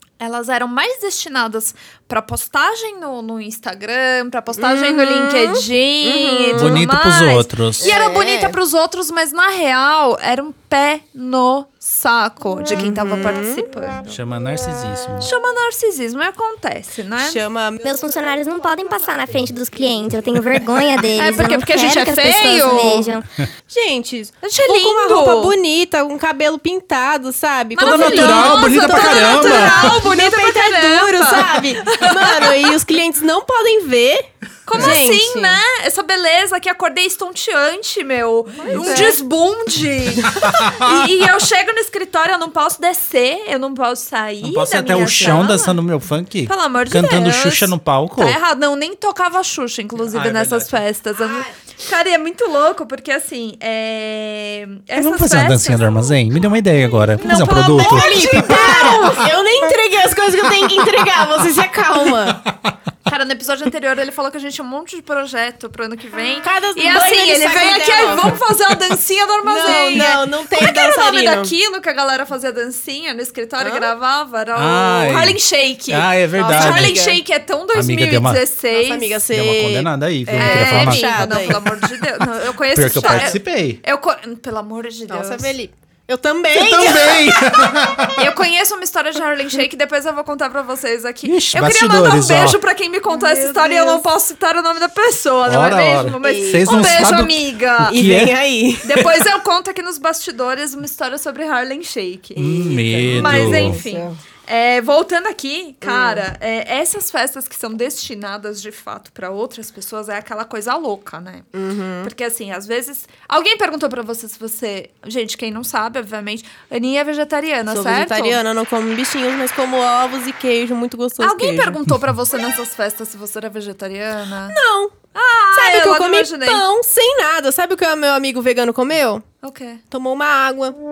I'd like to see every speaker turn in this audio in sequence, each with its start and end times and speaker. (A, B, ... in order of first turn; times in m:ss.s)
0:00.2-0:14.2 A
0:04.6-0:06.9 B
0:06.5-0:07.9 C
0:07.8-0:08.6 B
0:12.7-0:13.7 B
0:14.1-0:15.3 C
0:15.2-0:17.4 A
0:17.2-0:18.2 B
0:17.8-0:23.3 D
0:21.2-0:23.1 A
0:23.7-0:35.6 B
0:24.4-0:25.5 A
0:27.8-0:32.8 A
0:27.8-0:30.0 C
0:34.7-0:45.8 A
0:38.6-0:39.2 B
0:40.2-0:40.7 C
0:44.4-0:48.4 C
0:45.2-0:45.5 B
0:46.5-0:56.2 A
0:50.0-0:50.8 C
0:55.0-0:58.9 C
0:57.2-0:59.3 A
0:57.7-1:02.4 B
1:03.1-1:19.2 A
1:06.4-1:08.4 B
1:09.4-1:11.5 B
1:13.6-1:13.9 B
1:14.6-1:17.1 C
1:16.4-1:17.2 B
1:17.7-1:18.4 C
1:18.7-1:21.6 B
1:19.3-1:21.6 C
1:20.3-1:25.6 A
1:22.7-1:23.8 C
1:23.0-1:23.4 B
1:25.1-1:27.6 B
1:26.5-1:28.3 C
1:28.1-1:38.0 A
1:31.2-1:32.6 C
1:33.1-1:34.0 B
1:35.5-1:38.4 C
1:36.2-1:37.1 B
1:37.8-1:39.1 B
1:38.8-1:51.5 A
1:42.4-1:43.8 C
1:42.6-1:44.2 B
1:45.8-1:46.2 B
1:51.5-1:52.1 B
1:52.0-1:58.4 A
1:57.7-2:01.8 B
2:01.2-2:04.6 A
2:04.5-2:05.0 B
2:05.1-2:06.6 A
2:05.5-2:09.2 B
2:09.4-2:09.8 A
2:09.9-2:10.8 B